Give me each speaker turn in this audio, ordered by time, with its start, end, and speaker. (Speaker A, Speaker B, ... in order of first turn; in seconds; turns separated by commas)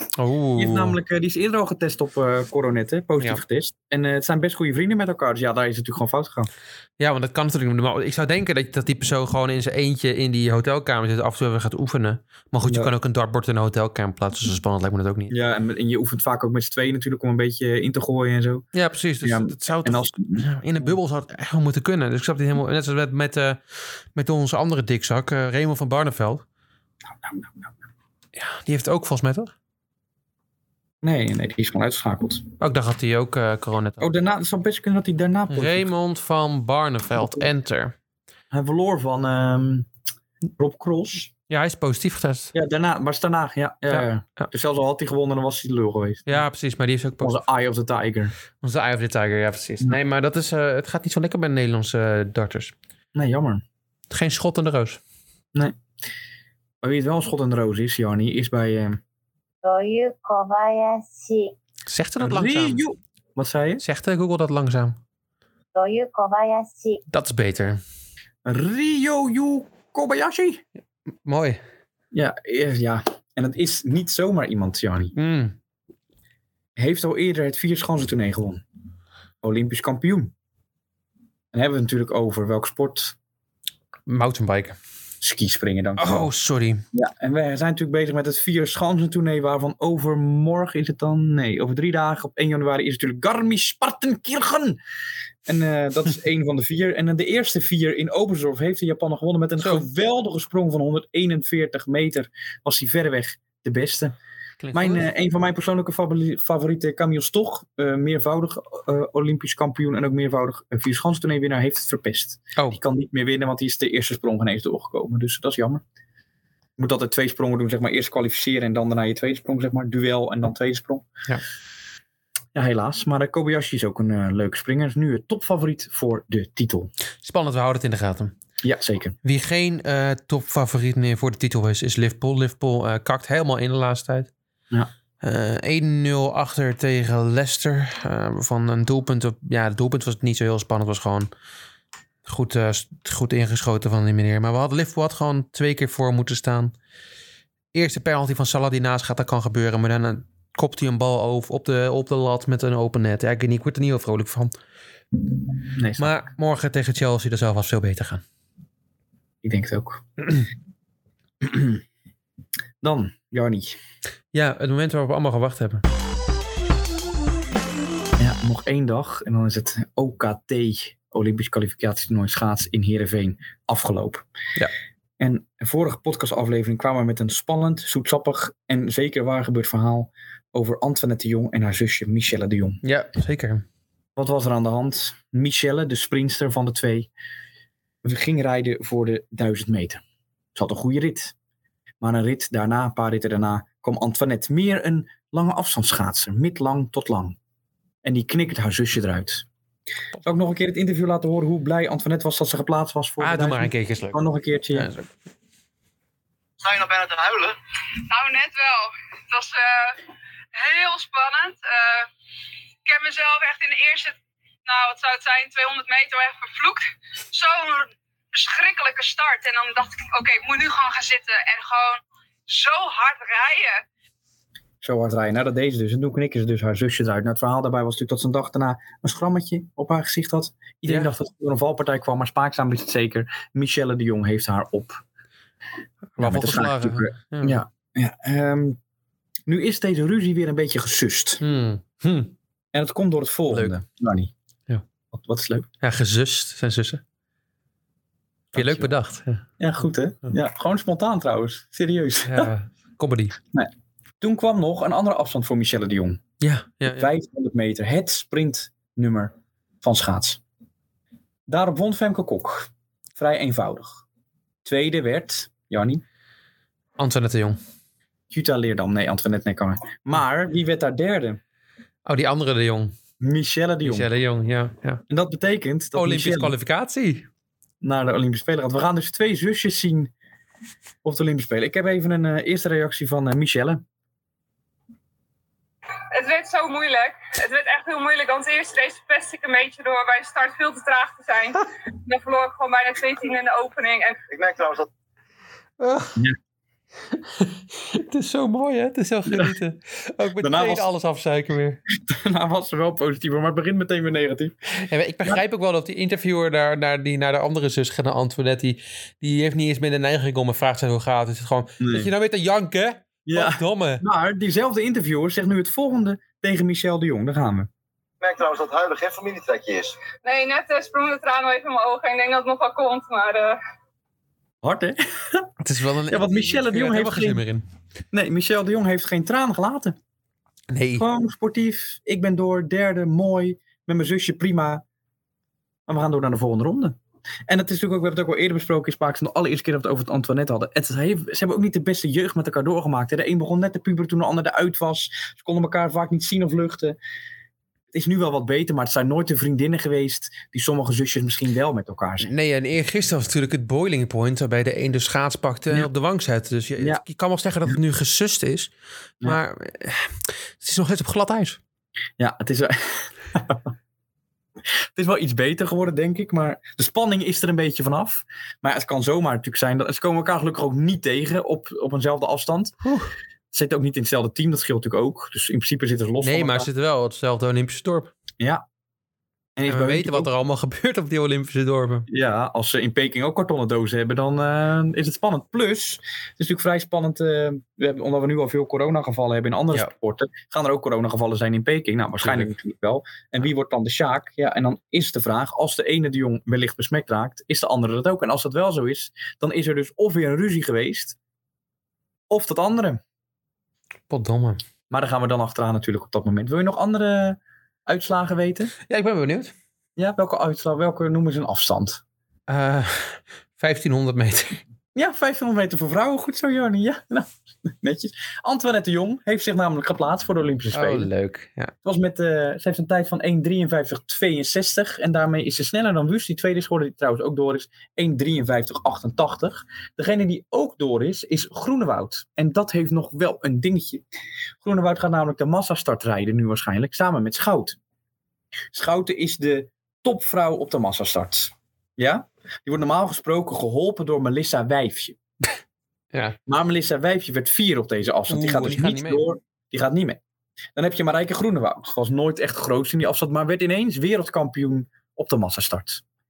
Speaker A: 0.2-1.0, Speaker B: 0.6-6.5, Speaker A: 7.0-15.3, Speaker B: 12.6-12.9, Speaker B: 15.3-18.6, Speaker A: 18.7-23.6, Speaker B: 19.2-20.9, Speaker A: 24.1-26.4, Speaker B: 27.2-27.7, Speaker A: 28.4-29.5, Speaker B: 31.0-32.5, Speaker A: 32.6-34.1, Speaker B: 34.0-35.9, Speaker A: 35.5-37.9, Speaker B: 38.5-39.9, Speaker B: 40.6-41.3, Speaker A: 41.5-42.5, Speaker B: 42.5-46.4, Speaker A: 43.9-44.5, Speaker A: 46.3-47.4, Speaker B: 47.2-48.3, Speaker A: 48.6-52.7, Speaker B: 53.1-53.6, Speaker A: 54.1-55.0, Speaker B: 56.8-59.0, Speaker C: 59.6-61.5, Speaker A: 61.9-62.8, Speaker B: 62.2-63.8, Speaker A: 63.8-65.0, Speaker C: 65.7-67.0, Speaker A: 67.1-67.8, Speaker B: 68.4-70.6, Speaker A: 71.2-71.6, Speaker B: 72.1-75.1, Speaker A: 75.1-75.5, Speaker B: 76.8-78.6, Speaker B: 79.4-80.3, Speaker B: 81.5-83.2, Speaker A: 84.1-84.8, Speaker B: 85.2-86.3, Speaker A: 86.0-86.8, Speaker B: 86.9-94.8, Speaker B: 95.5-104.2, Speaker A: 99.6-99.8, Speaker A: 104.6-105.1, Speaker B: 104.7-115.8, Speaker B: 116.8-121.1, Speaker B: 122.5-126.9, Speaker A: 127.2-128.3, Speaker B: 128.6-129.2, Speaker A: 129.2-134.3, Speaker A: 135.2-141.3, Speaker A: 142.2-146.7, Speaker A: 147.7-154.6, Speaker B: 155.7-156.2, Speaker A: 156.0-158.2, Speaker B: 159.4-160.0, Speaker B: 161.4-161.8, Speaker B: 162.8-163.8, Speaker A: 164.3-165.8, Speaker B: 168.2-174.2, Speaker B: 175.2-182.8, Speaker A: 182.8-183.6, Speaker B: 184.2-187.1, Speaker B: 188.0-190.0, Speaker B: 190.5-191.3, Speaker B: 192.0-197.4, Speaker B: 198.0-199.4, Speaker B: 200.2-204.9, Speaker A: 203.2-204.2, Speaker A: 204.7-205.1, Speaker D: 206.6-207.6, Speaker E: 208.0-210.0, Speaker E: 210.5-212.1, Speaker E: 212.8-223.8, Speaker B: 224.8-235.0, Speaker A: 230.8-231.1, Speaker A: 236.2-237.6, Speaker B: 236.2-238.8, Speaker B: 239.5-241.4, Speaker A: 241.4-242.3, Speaker B: 242.7-244.3, Speaker A: 243.5-243.8, Speaker B: 245.1-245.7, Speaker A: 245.8-247.0, Speaker B: 248.5-248.9, Speaker A: 248.5-249.4, Speaker B: 249.6-252.5, Speaker A: 252.2-253.4, Speaker B: 253.5-256.2, Speaker A: 256.4-257.1, Speaker B: 256.8-260.4, Speaker B: 261.5-264.0, Speaker B: 264.6-266.0, Speaker A: 267.0-267.6, Speaker B: 268.3-271.4, Speaker A: 272.0-272.9, Speaker B: 273.2-274.1, Speaker A: 273.8-275.0, Speaker B: 275.1-276.5, Speaker A: 275.9-277.3, Speaker B: 277.8-280.1, Speaker B: 281.0-283.8, Speaker E: 286.1-294.2, Speaker D: 294.3-294.9, Speaker A: 295.8-296.2, Speaker A: 297.1-301.8, Speaker B: 300.4-300.9, Speaker B: 301.9-304.5, Speaker A: 304.8-314.0, Speaker B: 311.8-312.1, Speaker B: 313.2-317.7, Speaker D: 318.2-320.0, Speaker E: 320.2-323.6, Speaker B: 324.6-325.5, Speaker A: 325.6-327.6, Speaker B: 326.1-327.4, Speaker B: 328.1-330.0, Speaker A: 330.7-331.1, Speaker B: 331.0-334.8, Speaker B: 335.9-347.0, Speaker B: 347.9-352.3, Speaker A: 352.2-358.7, Speaker A: 359.2-361.6, Speaker B: 362.2-363.7, Speaker B: 364.9-372.8, Speaker A: 372.8-373.1, Speaker B: 373.5-376.7, Speaker A: 376.2-378.1, Speaker B: 379.6-380.3, Speaker A: 379.7-382.1, Speaker B: 382.1-401.1, Speaker A: 392.2-392.5, Speaker B: 402.3-403.0, Speaker A: 404.1-404.6, Speaker B: 404.9-408.7, Speaker A: 408.9-409.5, Speaker B: 410.0-412.0, Speaker A: 412.5-414.6, Speaker B: 414.9-421.1, Speaker A: 420.7-421.7, Speaker B: 421.8-434.0, Speaker B: 434.6-437.8, Speaker B: 438.7-445.2, Speaker A: 446.1-446.4, Speaker B: 446.5-450.2, Speaker A: 448.3-449.2, Speaker B: 450.7-456.0